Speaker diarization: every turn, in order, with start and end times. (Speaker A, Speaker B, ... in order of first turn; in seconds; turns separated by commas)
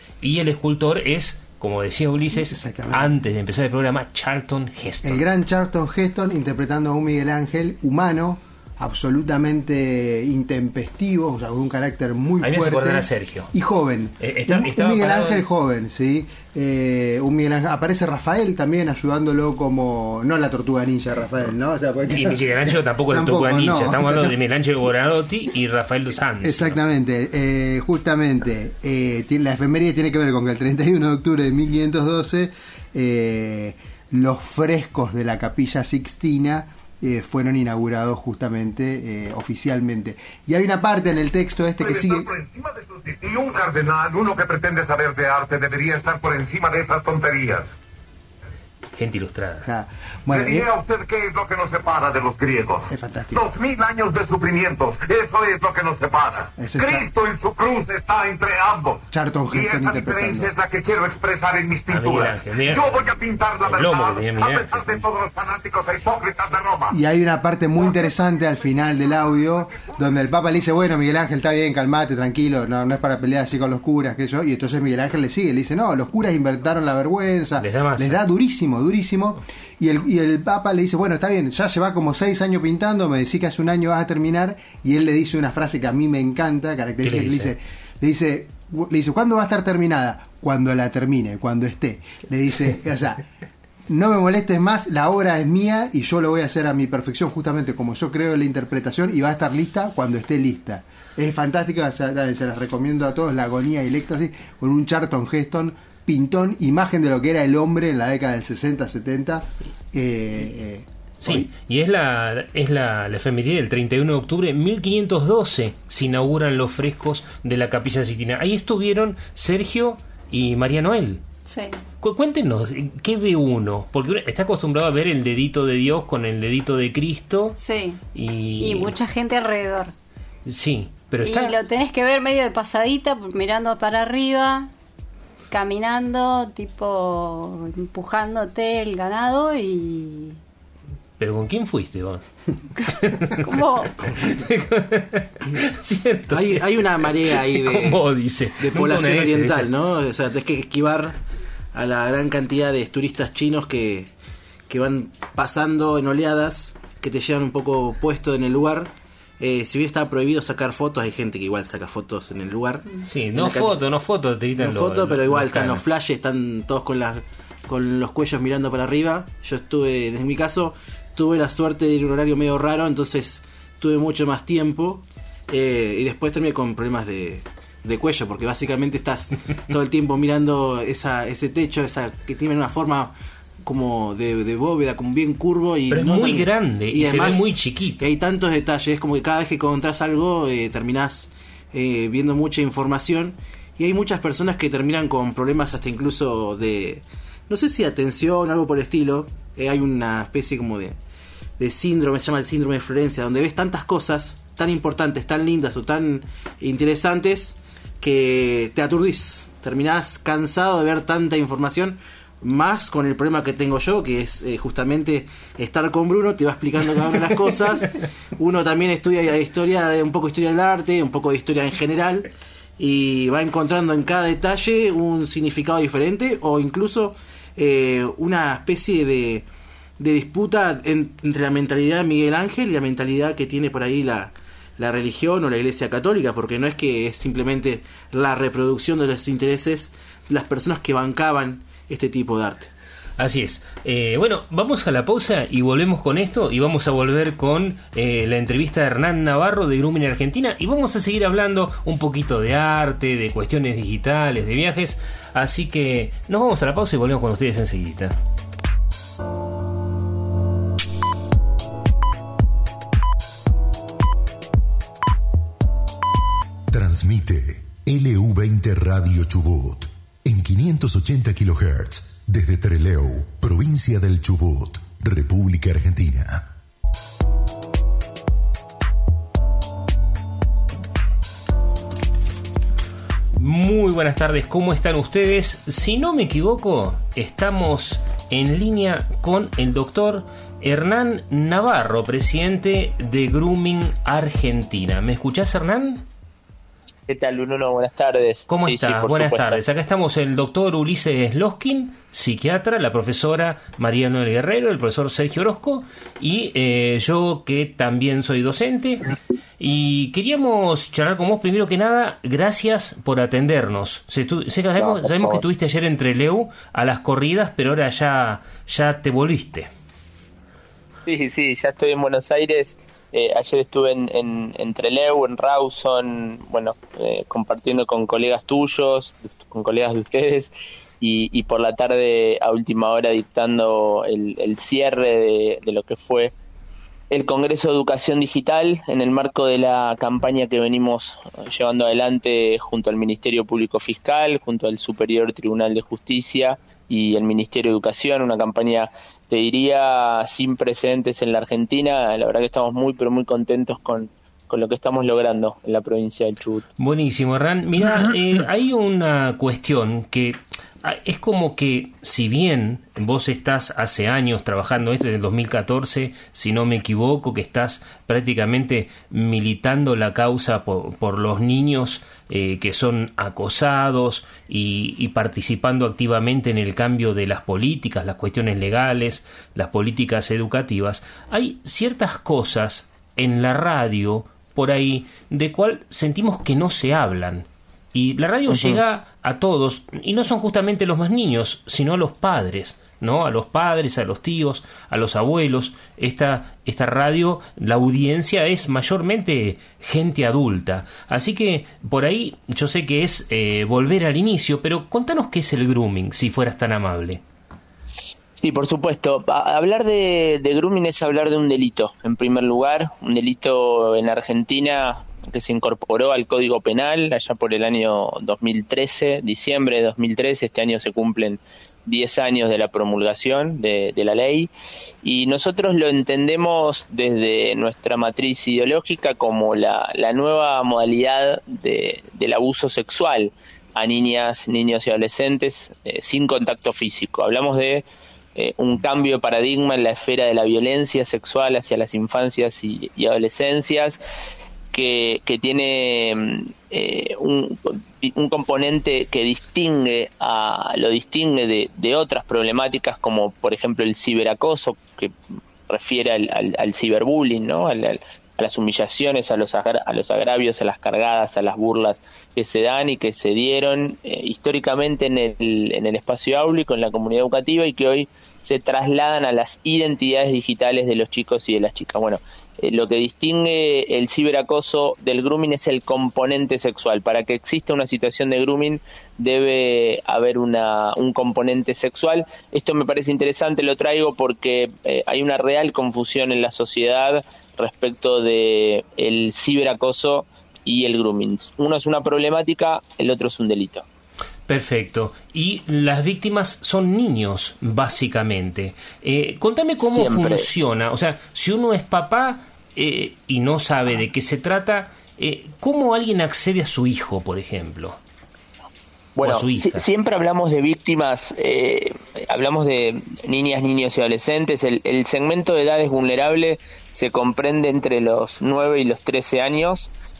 Speaker A: 0.2-5.2, Speaker B: 2.3-3.2, Speaker B: 5.0-24.4, Speaker A: 12.4-13.5, Speaker A: 14.2-15.5, Speaker A: 22.1-26.8, Speaker B: 26.4-42.3, Speaker C: 41.8-47.7, Speaker A: 49.0-49.7, Speaker B: 49.6-50.7, Speaker C: 50.3-67.0, Speaker B: 52.9-53.5, Speaker B: 56.6-57.1, Speaker B: 59.1-60.5, Speaker A: 61.9-63.1, Speaker A: 63.6-65.0, Speaker B: 66.9-93.2, Speaker A: 77.6-78.2, Speaker A: 87.0-87.5, Speaker B: 93.9-111.5, Speaker A: 111.2-121.2, Speaker D: 121.5-121.8, Speaker A: 122.0-127.6, Speaker D: 127.6-128.0, Speaker A: 128.1-129.0, Speaker D: 128.6-129.9, Speaker A: 130.5-131.6, Speaker D: 131.2-134.7, Speaker D: 135.5-140.4, Speaker A: 141.2-142.2, Speaker A: 142.9-149.7, Speaker D: 143.4-144.0, Speaker E: 146.3-148.1, Speaker E: 148.6-151.2, Speaker E: 151.7-154.1, Speaker E: 154.7-163.8, Speaker A: 163.0-165.8, Speaker E: 164.6-201.0, Speaker A: 185.9-188.1, Speaker E: 201.6-229.5, Speaker E: 230.0-242.7, Speaker A: 243.2-258.2, Speaker F: 266.7-276.4, Speaker A: 283.4-296.1, Speaker G: 297.1-299.6, Speaker A: 298.5-309.1, Speaker A: 309.6-319.7, Speaker G: 314.8-315.4, Speaker G: 321.1-336.3, Speaker G: 337.1-356.7, Speaker A: 356.8-407.2, Speaker G: 388.5-388.8, Speaker G: 408.4-424.5, Speaker G: 425.0-444.0, Speaker G: 444.7-455.1, Speaker G: 455.7-493.9, Speaker A: 494.5-508.0, Speaker G: 499.8-500.5, Speaker G: 509.2-519.9, Speaker A: 509.2-509.8